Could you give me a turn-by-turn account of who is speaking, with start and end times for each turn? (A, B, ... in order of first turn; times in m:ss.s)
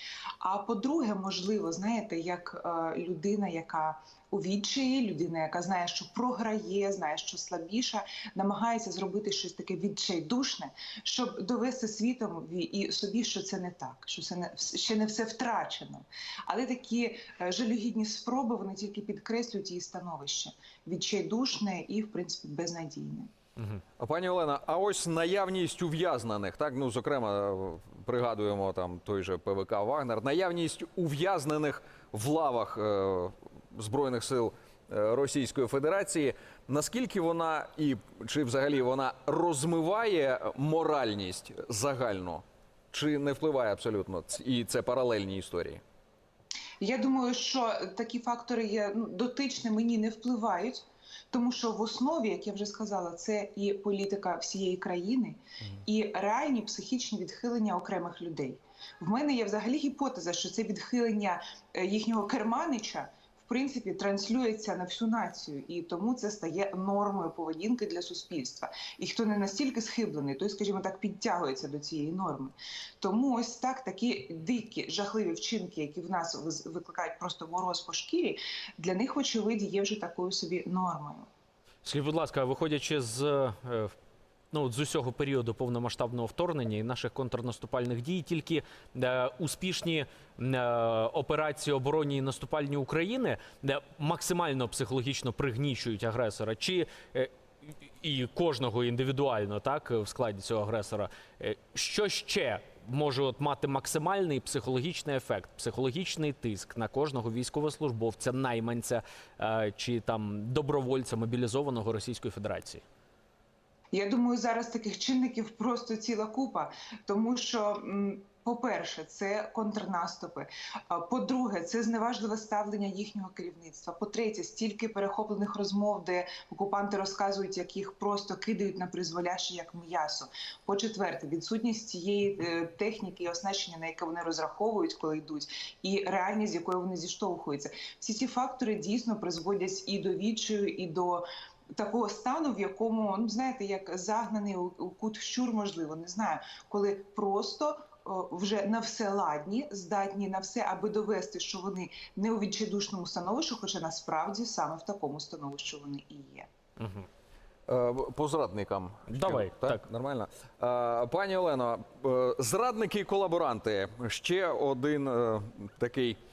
0:00.4-0:23.3 A
0:24.0-0:45.8 B
0:46.8-1:21.3 A
1:21.8-1:23.9 C
1:24.5-1:52.8 C
1:53.9-2:36.5 A
2:36.8-2:37.1 C
2:37.7-2:46.2 B
2:39.1-2:39.8 C